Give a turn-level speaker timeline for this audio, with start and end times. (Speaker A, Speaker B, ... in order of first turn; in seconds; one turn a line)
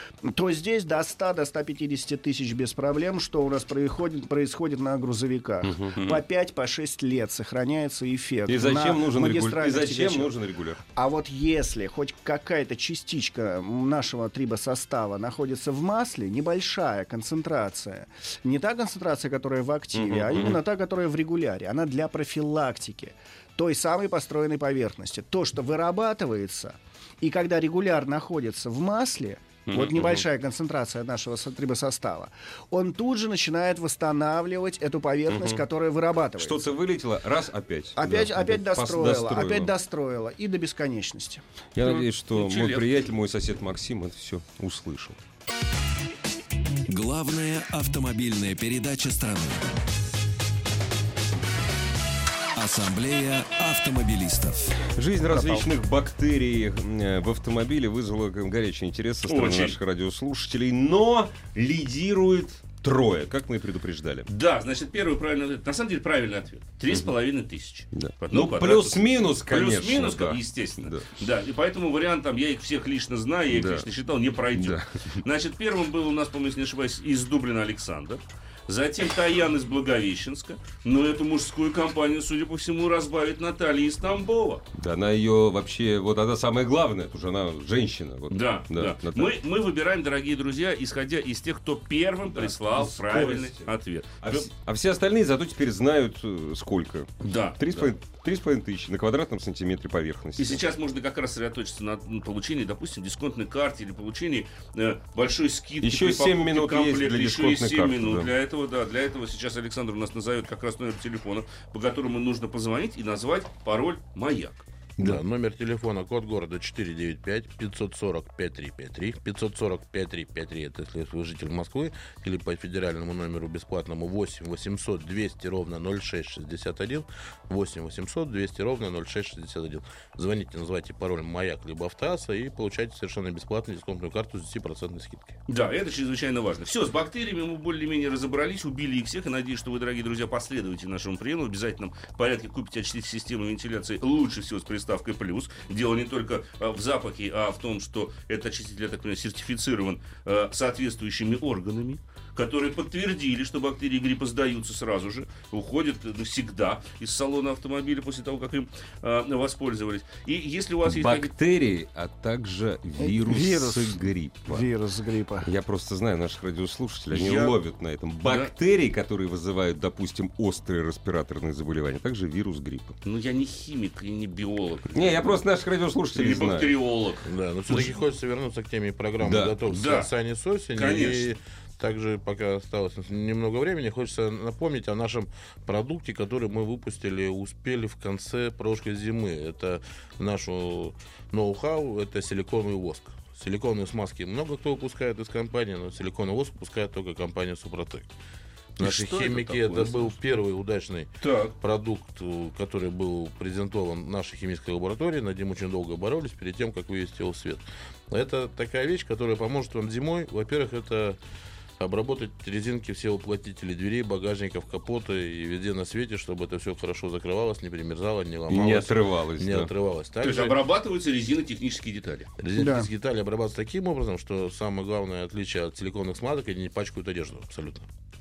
Speaker A: 0.2-10.3
Speaker B: 5.7-5.9
Speaker C: 6.0-6.2
Speaker B: 8.5-10.8
Speaker A: 10.9-36.7
Speaker B: 19.9-20.6
Speaker C: 29.7-30.2
Speaker B: 35.3-35.6
Speaker B: 36.4-39.7
Speaker A: 38.0-41.4
Speaker B: 41.8-45.2
Speaker C: 41.8-42.9
Speaker D: 46.9-49.7
Speaker D: 52.5-54.9
Speaker B: 54.8-64.3
Speaker C: 59.3-59.8
Speaker C: 64.3-84.6
Speaker B: 67.9-71.1
Speaker B: 73.5-73.9
Speaker B: 74.5-75.0
Speaker B: 84.7-89.4
Speaker C: 88.3-94.5
Speaker B: 92.3-100.7
Speaker C: 97.2-97.9
Speaker C: 100.4-114.7
Speaker B: 105.8-108.3
Speaker E: 115.0-135.4
Speaker C: 135.5-161.3
Speaker B: 160.9-164.7
Speaker A: 163.0-165.5
Speaker B: 165.4-173.0
Speaker C: 167.1-167.6
Speaker C: 168.2-168.5
Speaker C: 173.1-175.4
Speaker B: 174.9-176.7
Speaker C: 176.2-177.3
Speaker E: 177.3-198.1
Speaker B: 179.2-179.6
Speaker C: 179.7-180.1
Speaker C: 180.8-181.3
Speaker C: 198.8-200.1
Speaker E: 198.8-211.2
Speaker C: 201.2-201.6
Speaker E: 211.8-220.6
Speaker B: 218.5-219.7
Speaker C: 220.2-222.3
Speaker E: 222.4-227.9
Speaker A: 222.6-222.9